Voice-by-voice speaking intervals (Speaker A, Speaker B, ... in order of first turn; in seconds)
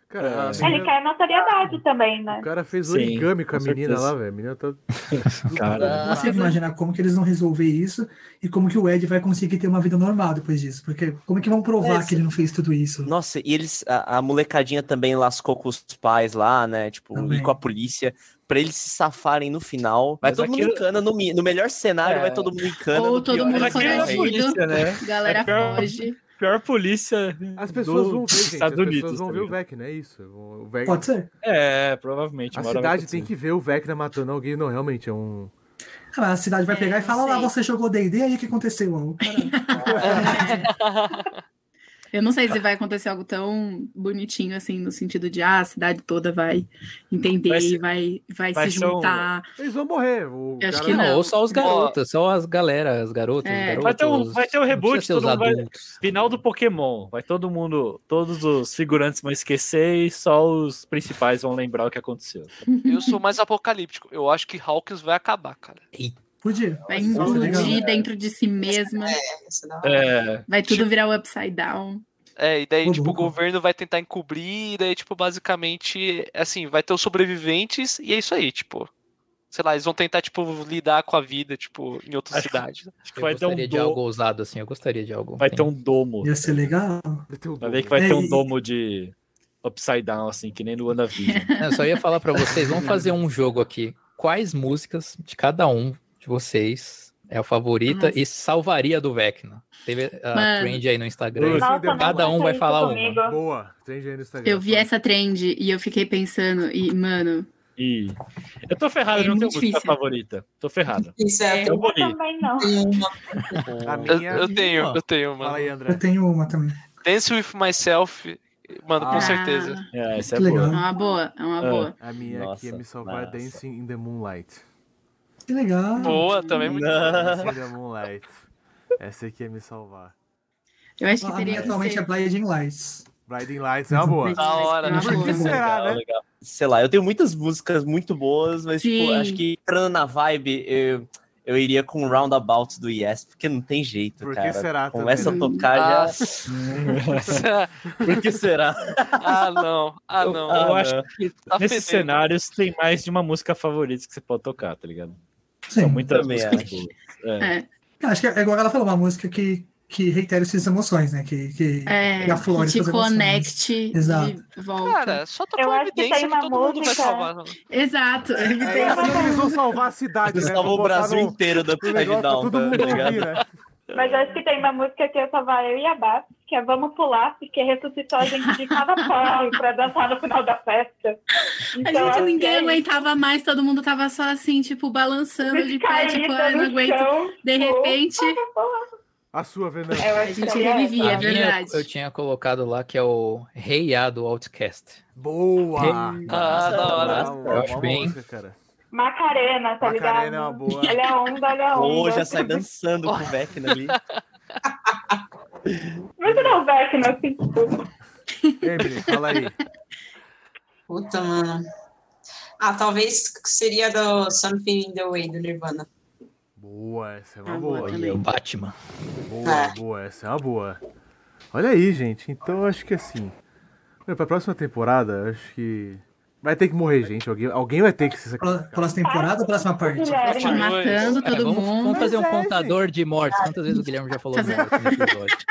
Speaker A: 0.1-0.9, 2.3-4.8, 5.3-6.5, 27.6-31.1, 32.5-35.5, 39.9-40.2, 49.6-51.4, 87.3-88.3, 101.3-102.4, 103.2-104.9, 113.8-114.5, 115.4-116.0, 119.0-119.4, 122.0-124.6, 126.6-128.4, 129.0-130.1, 133.3-136.0, 144.2-145.5, 147.0-147.4, 168.6-173.4, 189.3-190.4, 195.2-198.6, 199.8-201.0, 206.2-206.5, 208.6-209.6, 216.6-218.0, 219.2-220.8, 221.5-223.3, 224.1-229.0, 231.8-232.8, 234.4-234.8
Speaker B: 0.2-0.8, 2.9-4.1, 5.1-6.1, 20.2-20.9, 22.0-22.7, 23.3-29.5, 31.4-33.3, 39.9-40.4, 47.5-47.8, 48.5-49.3, 53.8-62.6, 69.8-70.5, 82.3-84.0, 85.4-86.7, 87.6-91.5, 107.8-112.2, 119.9-120.8, 121.6-121.9, 146.9-147.3, 150.2-151.0, 151.6-155.2, 155.8-157.5
Speaker C: 0.6-2.5, 11.8-12.2, 36.9-37.5, 101.5-103.4, 111.4-112.8, 120.9-121.2, 165.6-167.3, 168.7-169.4, 173.9-181.2, 181.7-183.0, 185.5-188.9, 189.9-191.3, 198.9-202.6, 206.2-207.8, 229.0-231.3
Speaker D: 5.9-6.6, 22.9-26.2, 36.7-37.4, 39.2-40.6, 42.1-49.5, 50.6-51.7, 53.4-53.9, 62.7-63.2, 66.9-69.2, 70.5-72.0, 91.2-92.5, 97.9-98.2, 100.3-100.8, 104.4-107.5, 109.1-110.0, 119.1-119.9, 120.7-122.0, 131.0-132.1, 134.2-135.6, 138.8-139.4, 145.2-145.7, 157.4-157.7, 161.9-165.2, 167.7-169.6, 178.2-179.6, 181.4-188.4, 190.2-191.9, 208.4-209.5, 217.4-218.2, 230.2-232.1, 233.7-235.4
Speaker E: 6.0-13.1, 17.1-17.5, 30.8-31.3, 36.1-40.7, 66.4-67.8, 72.8-73.3, 86.2-87.3, 88.0-88.5, 115.9-116.8, 120.3-120.8, 125.5-126.4, 131.2-133.1, 133.9-134.3, 134.8-135.6, 155.7-156.1, 158.0-164.4, 228.4-230.3
Speaker F: 13.1-24.5, 113.7-114.4, 122.2-123.6, 126.6-127.6, 135.6-147.0, 148.0-149.4, 150.4-151.1, 156.1-156.8, 170.3-173.4, 196.3-197.7, 201.7-204.0
Speaker G: 40.2-41.4, 51.5-52.0, 62.9-65.8, 72.4-78.9, 79.5-82.9, 114.1-115.7, 117.0-119.8, 126.0-127.3, 134.4-135.8, 145.7-146.4, 147.3-147.7, 149.2-152.2, 164.8-167.6, 172.7-173.2, 196.3-197.5, 203.1-204.2, 230.3-231.2
Speaker H: 50.8-56.0, 83.1-85.7, 91.6-103.2, 114.5-115.0, 191.0-195.0, 195.8-196.1, 197.5-198.2, 217.8-218.7, 231.2-235.4
Speaker I: 67.1-68.0, 68.6-70.1, 111.2-111.8, 112.6-113.6, 204.9-205.2, 210.9-211.6, 212.6-215.9, 219.4-219.8